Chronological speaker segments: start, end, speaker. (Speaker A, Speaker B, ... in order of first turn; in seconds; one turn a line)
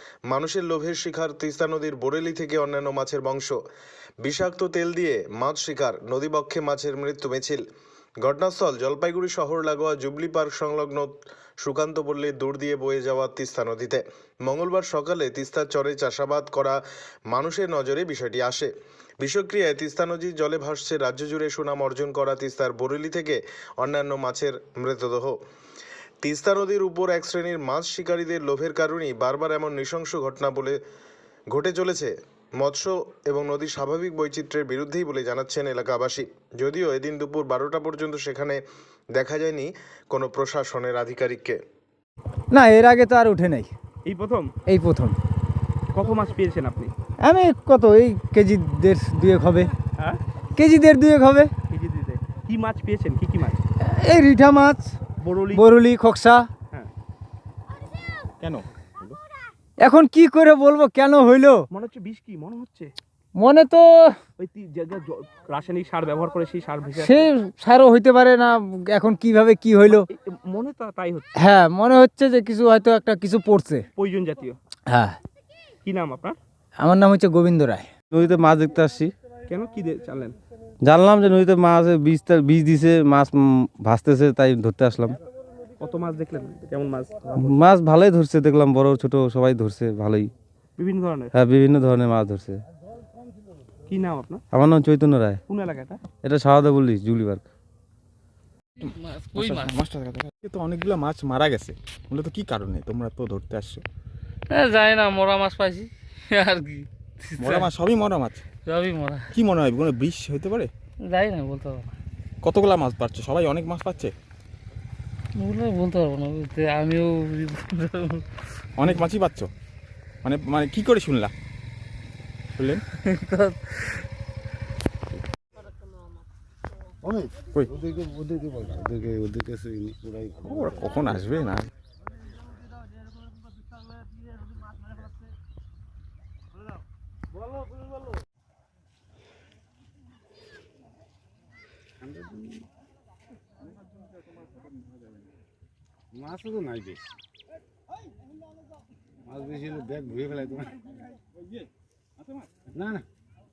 Speaker A: 0.3-3.6
Speaker A: 4.2-7.6
Speaker A: 8.2-11.1
Speaker A: 11.6-16.8
Speaker A: 17.3-18.7
Speaker A: 19.2-25.4
Speaker A: 26.2-30.8
Speaker A: 31.5-38.6
Speaker A: 39.1-41.6
Speaker B: 42.5-43.7
Speaker C: 44.0-44.5
Speaker B: 44.7-45.2
Speaker C: 45.9-46.9
Speaker B: 47.2-49.7
Speaker B: 50.6-51.5
Speaker C: 51.7-53.6
Speaker B: 53.8-55.0
Speaker C: 55.2-55.6
Speaker B: 55.5-56.5
Speaker D: 58.4-59.2
Speaker B: 59.8-61.6
Speaker C: 61.7-62.9
Speaker B: 63.4-64.2
Speaker C: 64.4-67.3
Speaker B: 67.0-70.1
Speaker C: 69.9-71.3
Speaker B: 71.3-73.9
Speaker C: 74.0-74.6
Speaker B: 74.9-75.2
Speaker C: 75.8-76.4
Speaker B: 76.8-77.9
Speaker E: 78.1-79.1
Speaker C: 79.5-80.4
Speaker E: 80.8-85.2
Speaker C: 85.8-87.5
Speaker E: 87.4-90.3
Speaker C: 90.8-91.3
Speaker E: 91.3-92.6
Speaker C: 93.9-94.4
Speaker E: 94.5-95.4
Speaker C: 95.5-96.0
Speaker E: 96.2-97.4
Speaker D: 98.8-103.8
Speaker F: 98.9-99.8
Speaker F: 104.5-107.7
Speaker D: 107.4-108.5
Speaker F: 108.7-109.3
Speaker D: 109.3-110.7
Speaker F: 111.1-111.9
Speaker D: 112.4-114.1
Speaker F: 115.4-119.0
Speaker D: 118.8-119.5
Speaker D: 120.2-121.3
Speaker D: 122.6-122.8
Speaker F: 122.9-124.0
Speaker G: 127.0-131.2
Speaker D: 130.4-131.7
Speaker G: 142.0-142.7
Speaker G: 146.1-147.1
Speaker G: 149.3-150.8
Speaker G: 152.7-153.0